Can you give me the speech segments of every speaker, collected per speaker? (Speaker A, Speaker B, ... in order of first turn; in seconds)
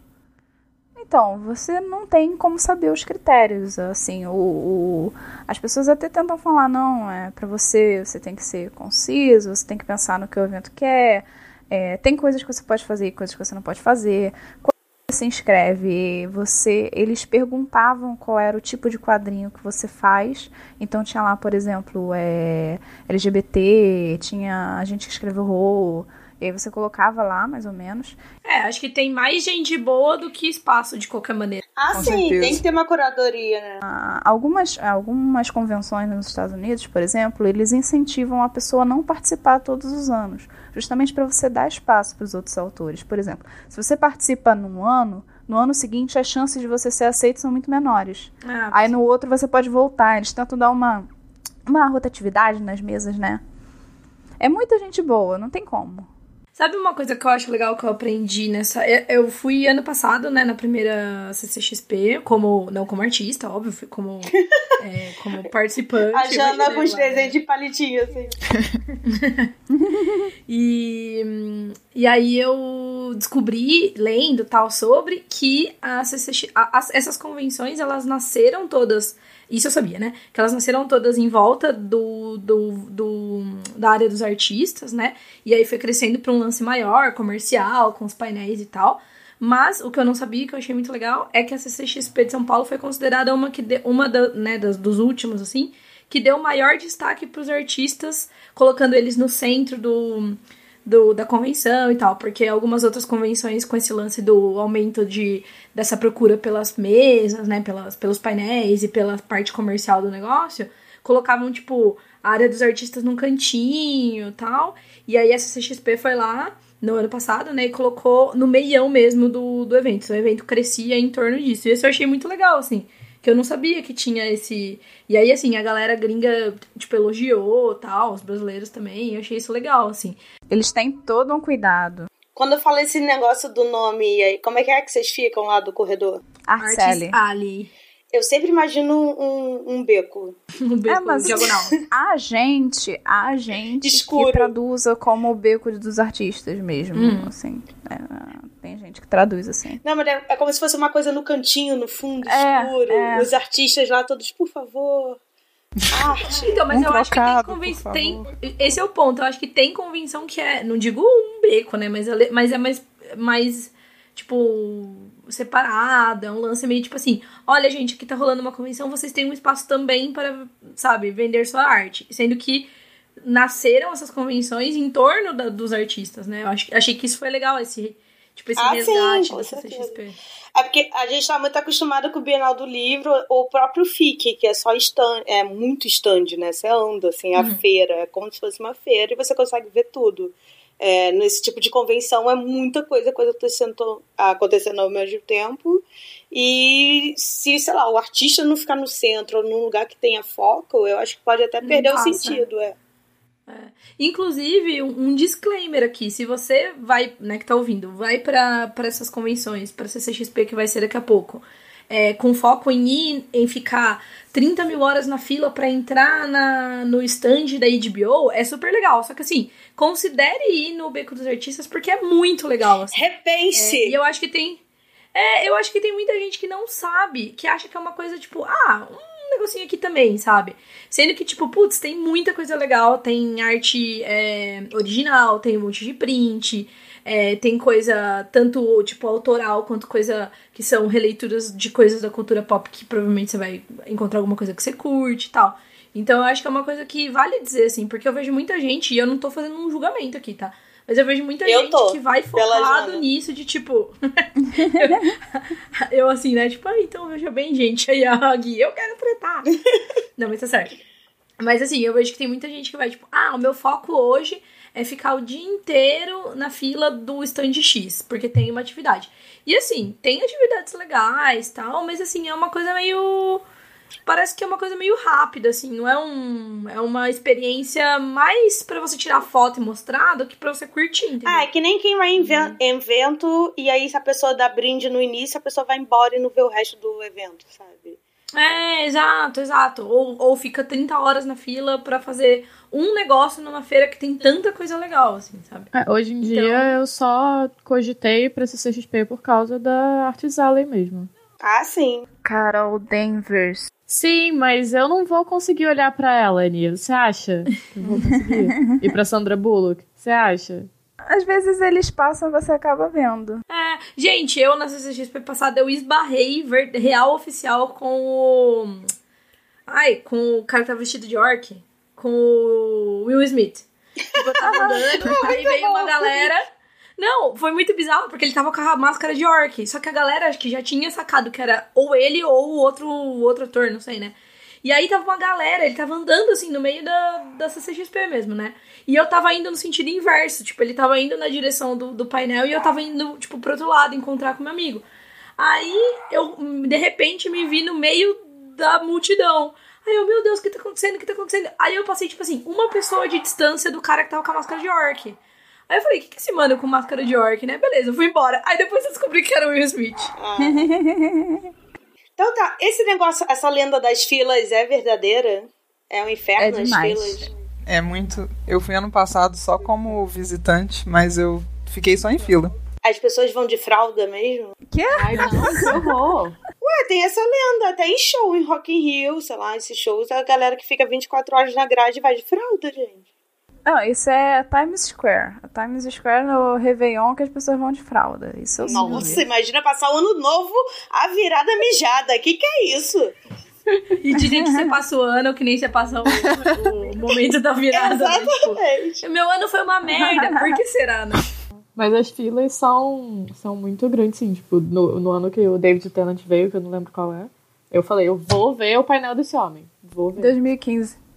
Speaker A: 1.0-28.2, 33.8-51.1, 51.6-53.4, 54.4-56.1, 69.7-70.3, 130.5-132.1, 136.5-137.2, 140.9-149.8, 152.3-153.3, 254.4-255.1, 302.2-303.7, 307.9-308.8, 311.1-313.4, 360.4-361.4, 366.4-367.2, 374.7-375.8, 383.6-389.2, 400.1-400.5, 410.2-411.0
Speaker B: 28.4-31.6, 48.4-48.9, 56.6-67.4, 69.0-69.5, 70.5-130.2, 136.6-137.7, 140.6-141.8, 146.9-147.3, 156.3-172.7, 173.2-180.2, 201.6-202.4, 203.5-224.6, 225.1-259.6, 260.2-260.8, 261.4-273.4, 274.1-281.5, 282.2-282.6, 288.4-295.7, 296.2-296.7, 313.5-318.9, 319.7-326.5, 327.0-344.9, 345.4-360.1, 394.0-401.3
Speaker C: 31.8-33.8, 66.1-68.4, 132.3-136.2, 138.1-140.4, 141.2-141.8, 143.8-144.5, 149.8-155.2, 155.9-156.6, 178.6-180.0, 180.6-202.8, 222.9-224.0, 251.4-253.0, 281.2-288.0, 301.4-302.1, 324.1-326.3, 360.2-360.7, 362.2-367.3, 372.8-374.6, 376.6-383.1, 388.6-393.1, 397.7-399.1
Speaker D: 31.9-32.6, 156.7-158.8, 367.7-372.5
Speaker E: 295.7-301.1, 303.9-310.7, 374.9-376.4, 401.8-410.4